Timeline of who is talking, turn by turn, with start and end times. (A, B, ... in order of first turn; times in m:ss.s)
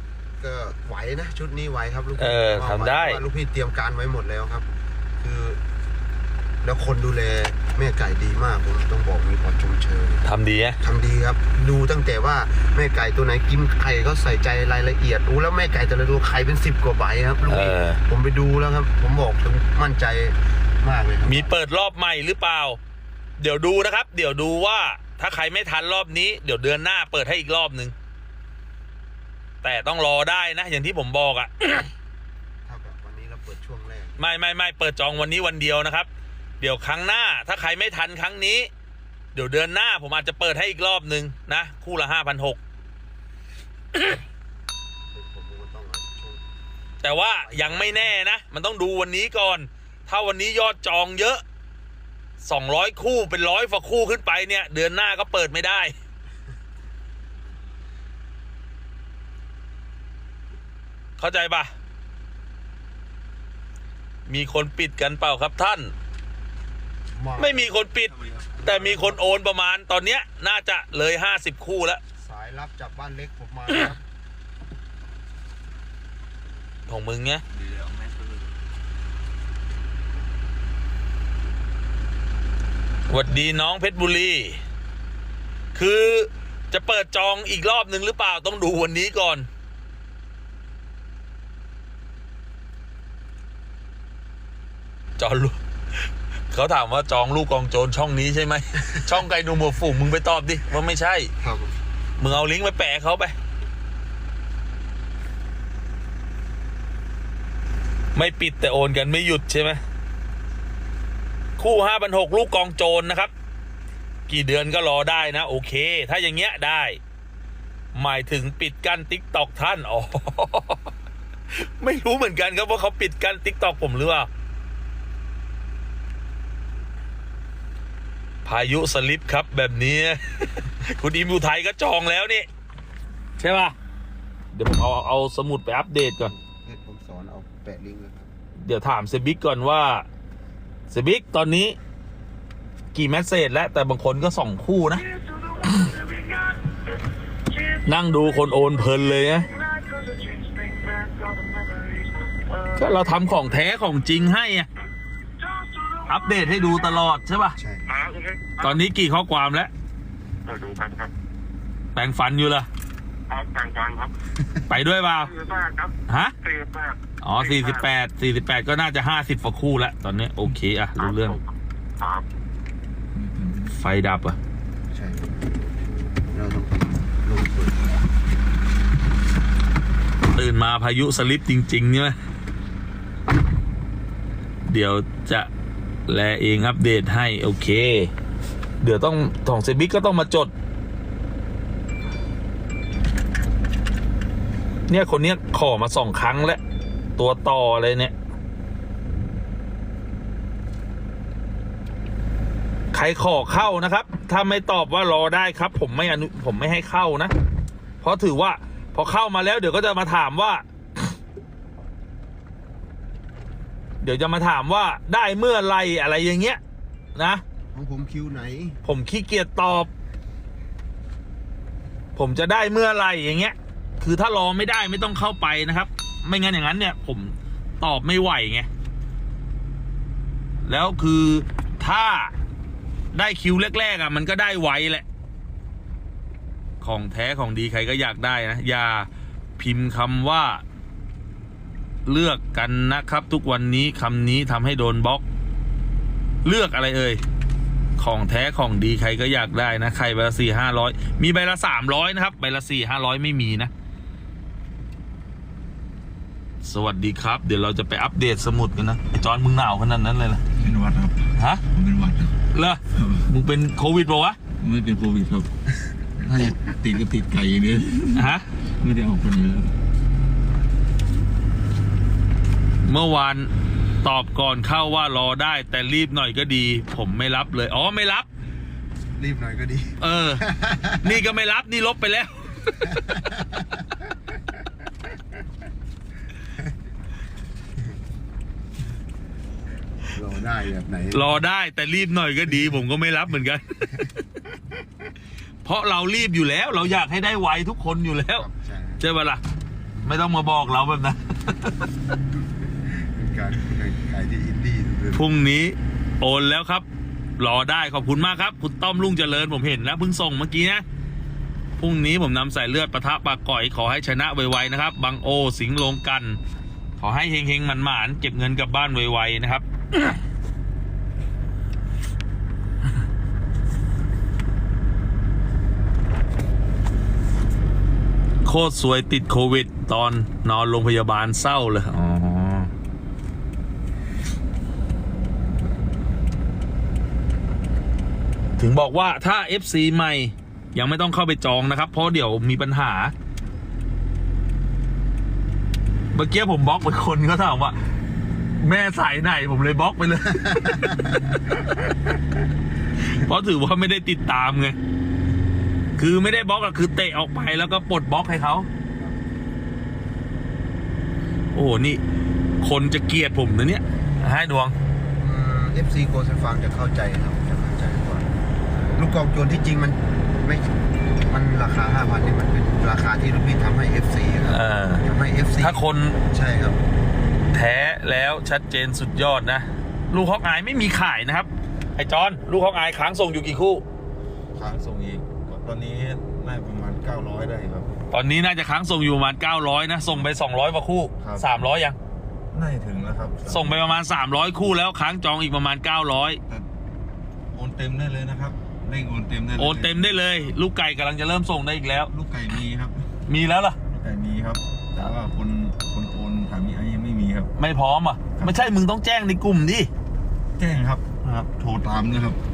0:00.4-0:04.7 A
0:02.2-0:03.2 B
0:05.2-0:05.6 A
0:06.6-0:10.2 A
0:10.2-0:10.8 B
0:10.8-0:21.6 A
0:17.5-0:18.0 B
0:21.3-0:22.8 B
0:23.4-0:27.9 B
0:29.6-0:31.9 B
0:32.6-0:34.2 A
0:34.2-0:36.1 B
0:36.6-0:38.7 B
0:39.3-0:42.6 B
0:45.1-0:46.4 A
0:47.0-0:51.4 B
0:47.3-0:48.1 A
0:52.4-0:55.9 B
1:01.2-1:01.7 B
1:04.3-1:05.9 B
1:07.1-1:09.2 A
1:07.4-1:12.0 B
1:12.2-1:14.0 A
1:16.9-1:17.4 B
1:17.5-1:18.5 C
1:23.1-1:24.6 B
1:25.7-1:29.5 B
1:35.2-1:41.3 B
1:41.4-1:41.8 A
1:42.2-1:43.3 B
1:48.1-1:49.8 B
1:51.6-1:53.3 B
1:54.3-1:57.0 B
1:57.9-2:00.9 B
2:01.5-2:04.3 B
2:08.4-2:12.5 B
2:13.4-2:13.7 B
2:14.5-2:16.3 B
2:16.2-2:18.3 A
2:18.6-2:20.0 B
2:20.9-2:21.8 B
2:22.9-2:25.0 B
2:24.8-2:33.2 D
2:27.8-2:29.5 B
2:32.8-2:34.7 B
2:35.4-2:37.1 D
2:36.1-2:37.6 B
2:37.6-2:37.8 A
2:37.9-2:38.8 E
2:38.6-2:39.7 B
2:40.4-2:41.1 E
2:41.9-2:42.7 B
2:43.3-2:44.1 E
2:44.7-2:45.3 B
2:45.2-2:47.8 E
2:46.1-2:46.3 B
2:47.2-2:51.4 B
2:51.0-2:51.4 E
2:52.0-2:52.2 E
2:53.1-2:53.8 C
2:53.7-2:54.4 B
2:54.9-2:55.6 A
2:56.2-2:57.8 A
3:00.3-3:02.2 B
3:04.6-3:05.5 B
3:06.1-3:08.1 B
3:08.8-3:10.5 B
3:14.9-3:16.6 B
3:17.2-3:18.1 B
3:22.9-3:27.3 B
3:28.0-3:30.6 B
3:34.0-3:36.6 B
3:37.2-3:37.4 B
3:37.7-3:38.8 A
3:38.8-3:39.9 B
3:42.2-3:48.7 B
3:50.6-3:52.3 B
3:53.1-3:55.0 B
3:56.8-4:00.6 B
4:02.0-4:05.2 B
4:06.4-4:07.2 B
4:08.0-4:13.7 B
4:16.6-4:20.4 B
4:20.6-4:22.4 C
4:21.4-4:21.6 B
4:22.5-4:24.4 B
4:22.9-4:23.2 C
4:24.6-4:25.5 C
4:26.2-4:29.7 C
4:28.1-4:28.4 B
4:32.8-4:33.5 B
4:34.0-4:38.3 B
4:39.2-4:41.2 A
4:40.0-4:40.4 B
4:41.0-4:42.9 B
4:42.8-4:44.1 A
4:50.1-4:51.4 A
4:51.1-4:54.1 B
4:55.6-4:58.5 B
4:58.3-4:59.0 A
4:59.0-4:59.4 B
5:00.0-5:01.9 B
5:02.6-5:05.3 A
5:05.1-5:06.8 B
5:07.4-5:10.8 B
5:11.8-5:16.4 B
5:17.0-5:20.2 B
5:28.4-5:32.7 B
5:38.6-5:43.1 B
5:46.1-5:47.8 B
5:48.6-5:51.1 B
5:53.0-5:54.8 B
5:56.0-5:58.7 B
6:01.5-6:02.0 B
6:02.6-6:04.7 B
6:05.2-6:08.3 A
6:08.9-6:10.7 A
6:11.3-6:16.8 A
6:14.5-6:15.1 B
6:15.6-6:16.2 B
6:17.5-6:23.8 B
6:24.5-6:27.9 C
6:28.1-6:32.0 B
6:31.2-6:31.5 C
6:32.5-6:33.9 C
6:33.5-6:36.4 B
6:37.5-6:40.6 C
6:39.6-6:42.1 B
6:42.1-6:43.1 C
6:43.3-6:43.8 B
6:43.9-6:47.5 C
6:47.6-6:49.9 B
6:48.4-6:48.7 C
6:50.6-6:52.4 C